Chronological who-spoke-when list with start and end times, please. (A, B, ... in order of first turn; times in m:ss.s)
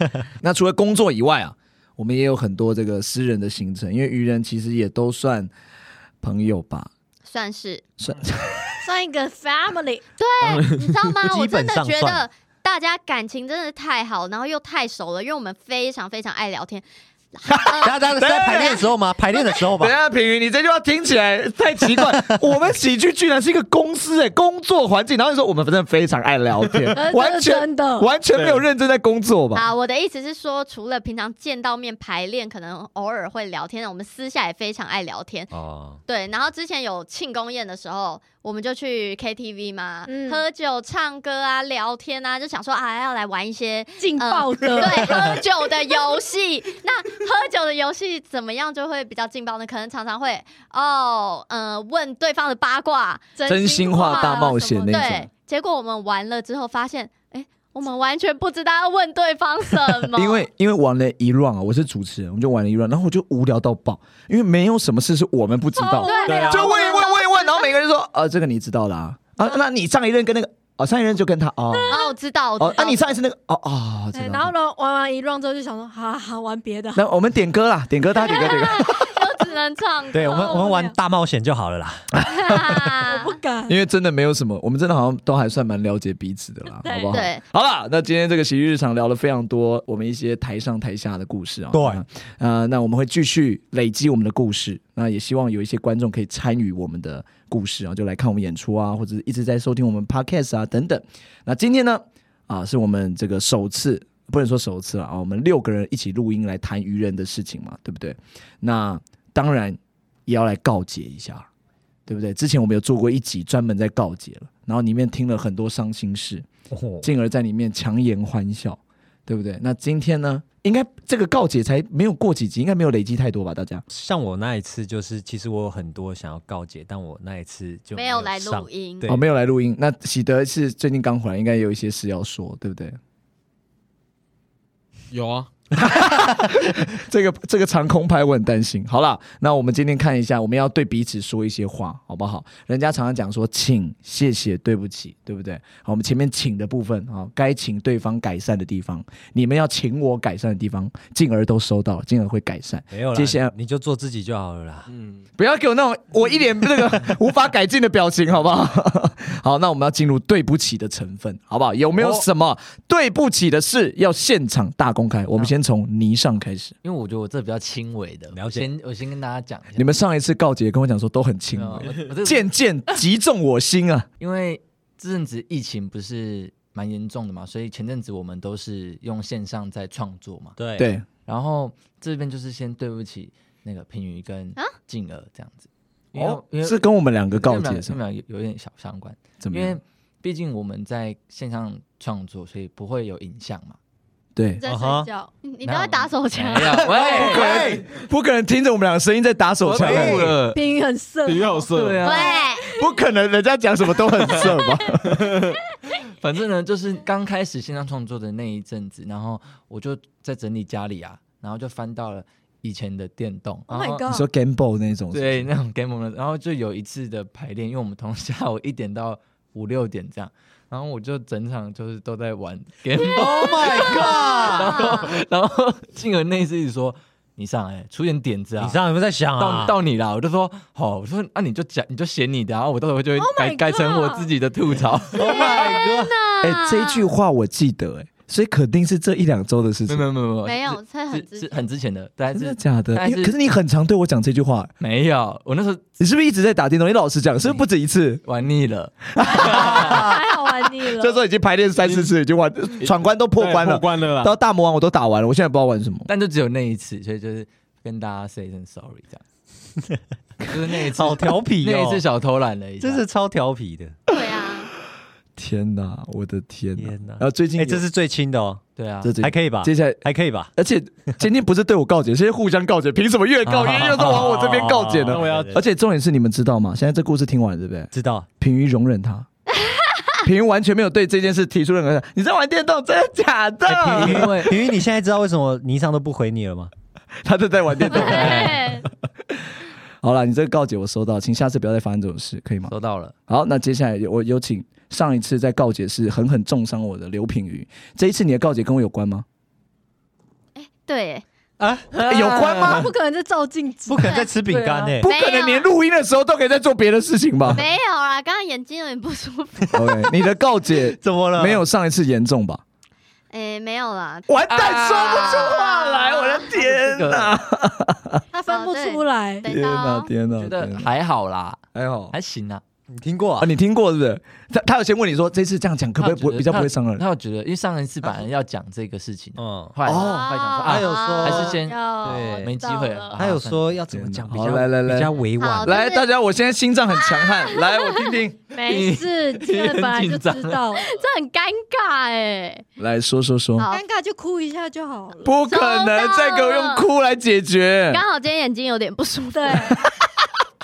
0:00.4-0:05.5 A
0:06.2-0:06.9 A
0:07.2-0:07.9 B
0:08.0-0:08.8 A
0:08.8-0:10.0 C
0:10.2-0:16.8 B
0:10.5-0:11.0 D
0:11.2-0:12.2 E
0:17.4-0:18.0 B
0:17.5-0:18.8 A
0:17.8-0:19.9 E
0:18.5-0:18.8 B
0:19.8-0:29.6 A
0:21.9-0:22.4 E
0:26.9-0:28.1 C
0:28.3-0:28.6 D
0:29.5-0:35.5 B
0:35.5-0:36.0 E
0:36.1-0:53.3 B
0:40.1-0:40.4 C
0:44.0-0:45.4 C
0:53.4-0:55.1 C
0:53.4-0:55.3 A
0:53.9-1:00.4 B
1:00.1-1:12.0 A
1:05.8-1:07.1 C
1:06.0-1:07.5 B
1:06.2-1:06.7 E
1:11.9-1:13.2 B
1:12.6-1:14.5 A
1:14.1-1:17.0 C
1:17.0-1:19.1 A
1:18.2-1:20.6 B
1:20.1-1:22.7 E
1:20.2-1:20.9 C
1:22.4-1:23.4 B
1:23.0-1:23.8 C
1:23.7-1:51.4 A
1:26.8-1:27.1 C
1:27.1-1:27.4 B
1:31.7-1:32.0 E
1:52.1-1:56.4 A
1:56.7-1:57.1 E
1:57.0-2:03.8 A
2:03.9-2:09.2 E
2:07.9-2:09.1 B
2:09.1-2:13.0 A
2:15.1-2:15.5 D
2:15.8-2:33.5 A
2:32.9-2:34.9 E
2:34.9-2:35.2 D
2:35.4-2:46.7 A
2:46.8-2:50.0 F
2:48.3-2:48.6 E
2:49.8-2:54.1 A
2:51.5-2:52.5 F
2:54.2-3:00.6 F
3:00.6-3:00.9 E
3:00.8-3:01.1 A
3:01.2-3:13.8 F
3:06.1-3:08.0 A
3:09.4-3:09.8 A
3:14.4-3:14.6 A
3:14.6-3:15.3 C
3:14.6-3:15.1 E
3:15.4-3:16.9 B
3:15.6-3:17.8 F
3:16.8-3:17.8 E
3:17.0-3:20.4 A
3:19.6-3:20.6 F
3:19.8-3:20.4 E
3:20.5-3:22.7 C
3:21.2-3:22.1 D
3:21.7-3:22.4 F
3:22.0-3:22.7 B
3:22.8-3:25.4 A
3:24.3-3:24.6 C
3:26.2-3:34.1 F
3:33.7-3:34.2 C
3:34.1-3:35.5 A
3:35.1-3:48.8 F
3:43.1-3:44.9 E
3:44.6-3:45.1 B
3:48.6-3:49.8 E
3:49.4-3:55.5 F
3:53.2-3:54.3 C
3:55.1-3:56.1 E
3:55.3-3:57.1 B
3:56.4-4:00.0 A
3:59.9-4:03.3 F
4:00.4-4:01.6 B
4:02.3-4:04.7 A
4:04.8-4:05.8 F
4:06.0-4:08.2 A
4:08.2-4:10.1 F
4:09.1-4:16.1 A
4:09.2-4:11.2 C
4:11.8-4:12.1 D
4:13.4-4:14.3 D
4:16.1-4:19.2 F
4:20.5-4:23.0 F
4:20.8-4:22.0 E
4:22.8-4:24.0 E
4:24.1-4:24.7 B
4:25.4-4:27.8 A
4:26.8-4:28.6 E
4:28.8-4:29.1 F
4:29.0-4:39.3 A
4:29.2-4:30.5 E
4:33.5-4:35.6 E
4:35.1-4:35.6 D
4:37.9-4:38.3 E
4:39.6-4:40.2 B
4:40.2-4:44.5 A
4:43.7-4:44.5 F
4:43.9-4:46.7 E
4:47.2-4:48.7 A
4:47.9-4:48.8 F
4:47.9-4:48.8 B
4:50.0-4:52.7 A
4:52.7-4:53.1 F
4:53.3-4:59.2 A
5:00.6-5:01.2 B
5:01.6-5:02.0 E
5:01.9-5:02.8 F
5:02.1-5:02.9 A
5:02.6-5:04.2 C
5:03.9-5:05.0 E
5:04.0-5:04.3 B
5:04.5-5:04.9 F
5:05.0-5:07.6 A
5:05.0-5:05.7 B
5:07.5-5:10.1 B
5:09.7-5:12.6 A
5:11.0-5:11.6 E
5:13.3-5:16.5 B
5:14.3-5:18.2 A
5:16.5-5:17.3 F
5:18.3-5:19.5 C
5:18.5-5:20.1 B
5:19.5-5:20.9 A
5:20.3-5:22.6 F
5:21.7-5:22.1 A
5:22.9-5:23.5 E
5:23.4-5:27.0 A
5:26.0-5:33.8 F
5:29.4-5:29.8 E
5:29.8-5:30.3 A
5:30.0-5:31.6 B
5:30.6-5:32.5 E
5:31.3-5:33.2 C
5:33.2-5:35.8 E
5:33.9-5:35.1 A
5:35.4-5:36.1 B
5:35.6-5:38.4 A
5:37.0-5:38.2 B
5:38.5-5:40.8 C
5:38.6-5:40.7 F
5:40.8-5:42.6 B
5:42.8-5:43.7 A
5:43.6-5:43.8 B
5:43.7-5:45.3 C
5:45.2-5:48.0 A
5:45.5-5:46.8 B
5:47.9-5:49.8 B
5:49.3-5:49.9 C